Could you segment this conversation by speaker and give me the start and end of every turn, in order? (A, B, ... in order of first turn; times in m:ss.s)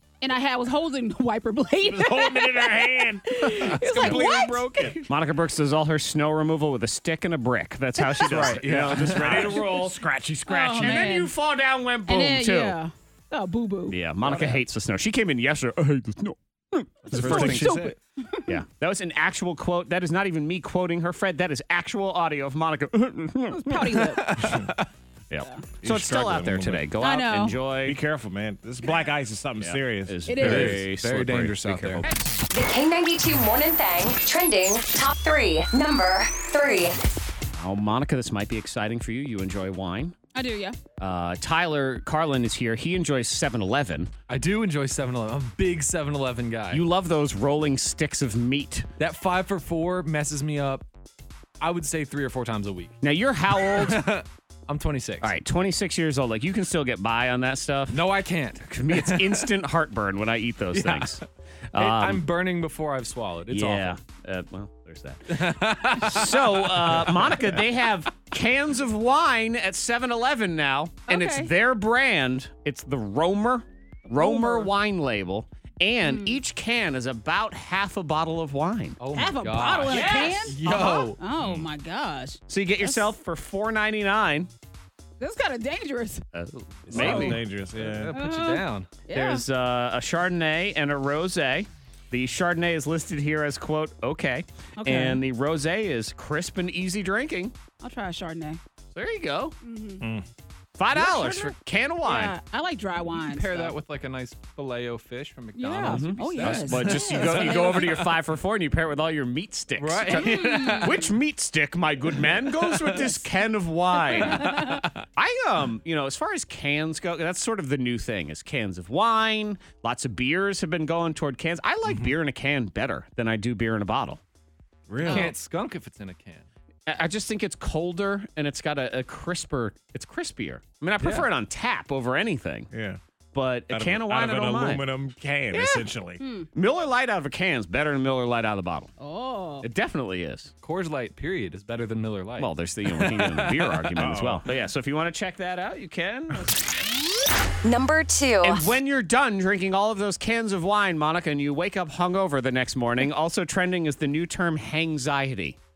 0:00.2-0:05.0 A
0:01.8-0:05.0 B
0:05.1-0:12.8 C
0:08.3-0:09.6 D
0:08.4-0:11.1 B
0:10.5-0:11.3 A
0:12.1-0:14.0 A
0:13.9-0:17.8 C
0:17.1-0:17.9 B
0:17.1-0:18.5 A
0:18.5-0:24.0 C
0:23.5-0:24.3 A
0:24.0-0:24.9 D
0:24.4-0:24.7 B
0:25.3-0:28.0 C
0:25.8-0:26.9 B
0:27.0-0:27.6 A
0:27.8-0:30.4 B
0:29.6-0:32.4 C
0:30.3-0:30.8 A
0:30.4-0:32.1 D
0:32.5-0:37.1 E
0:37.6-0:40.2 C
0:40.3-0:40.8 A
0:41.0-0:44.1 C
0:44.3-0:46.8 D
0:46.7-0:48.9 C
0:49.0-0:50.8 D
0:51.6-0:52.9 D
0:53.0-0:54.0 C
0:53.5-0:55.3 D
0:55.2-0:58.0 C
0:57.9-0:59.5 D
0:58.6-1:01.2 C
1:00.7-1:01.2 D
1:01.7-1:02.2 C
1:01.8-1:04.0 D
1:03.5-1:19.0 C
1:05.3-1:07.6 D
1:11.1-1:11.5 A
1:14.2-1:14.7 A
1:16.0-1:16.4 A
1:19.0-1:21.2 D
1:19.1-1:23.1 A
1:19.9-1:21.0 C
1:22.5-1:24.5 C
1:25.2-1:26.2 A
1:26.3-1:27.4 C
1:26.9-1:28.1 B
1:27.0-1:27.3 A
1:27.1-1:28.9 D
1:28.1-1:29.4 A
1:29.1-1:37.5 C
1:34.8-1:35.2 A
1:37.8-1:38.6 A
1:38.9-1:39.6 C
1:39.6-1:40.0 A
1:40.0-1:40.3 B
1:40.8-1:42.4 C
1:40.9-1:41.4 D
1:42.0-1:43.7 A
1:43.1-1:48.1 D
1:45.6-1:48.0 A
1:45.8-1:54.6 C
1:49.8-1:51.0 D
1:50.1-1:51.0 A
1:52.6-1:53.0 D
1:54.2-1:54.9 D
1:54.2-1:54.8 A
1:55.2-2:04.2 C
2:01.9-2:02.2 B
2:04.9-2:05.3 B
2:05.0-2:06.4 D
2:05.1-2:05.3 C
2:06.9-2:12.7 C
2:11.0-2:11.3 D
2:12.7-2:13.0 B
2:13.3-2:14.8 C
2:13.7-2:16.2 B
2:15.5-2:15.8 C
2:16.2-2:16.5 A
2:16.6-2:18.9 C
2:19.0-2:19.7 A
2:19.6-2:20.5 C
2:20.6-2:22.5 D
2:22.4-2:26.7 C
2:23.0-2:23.5 D
2:24.0-2:24.4 B
2:27.6-2:28.7 E
2:28.4-2:35.6 C